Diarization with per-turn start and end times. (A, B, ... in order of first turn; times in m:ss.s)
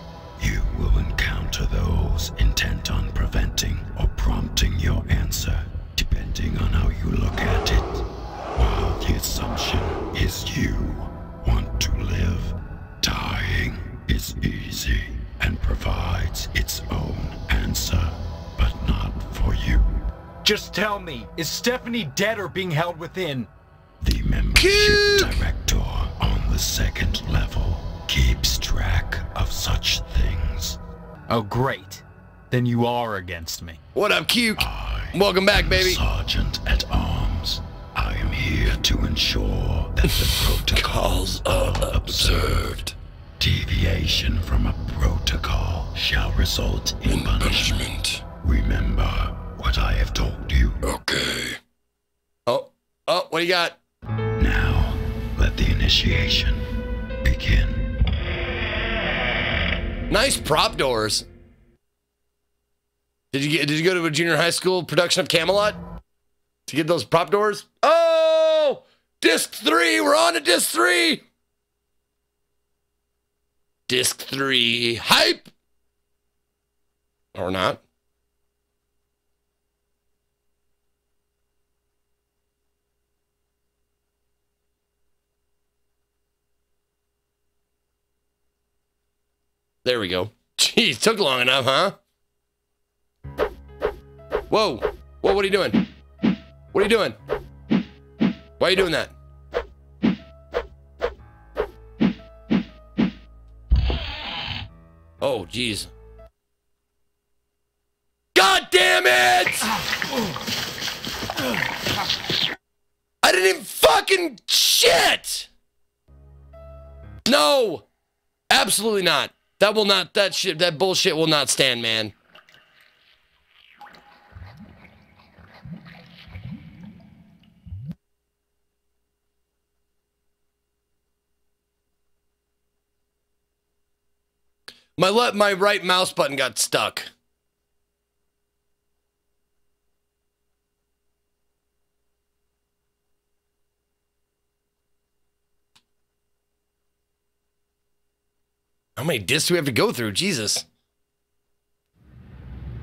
0:00.4-0:20.0 A
0:20.4-0:23.5 B
0:24.0-0:30.8 A
0:24.5-0:25.4 C
0:31.3-0:33.8 B
0:33.9-0:36.0 C
0:34.6-0:50.8 A
0:40.1-0:42.9 C
0:47.1-0:48.2 C
0:50.8-0:51.6 C
0:52.5-0:53.8 C
0:54.4-0:56.6 A
0:57.2-0:57.9 A
1:00.1-1:01.2 C
1:03.3-1:05.8 C
1:06.7-1:11.2 C
1:13.9-1:15.5 C
1:17.3-1:17.8 C
1:29.8-1:32.0 C
1:34.5-1:35.8 C
1:36.7-1:37.2 C
1:38.6-1:39.1 C
1:45.2-1:45.9 C
1:48.3-1:49.7 C
1:53.2-1:55.5 C
1:57.2-1:57.8 C
1:58.5-2:02.1 C
2:15.0-2:17.1 C
2:29.0-2:30.6 C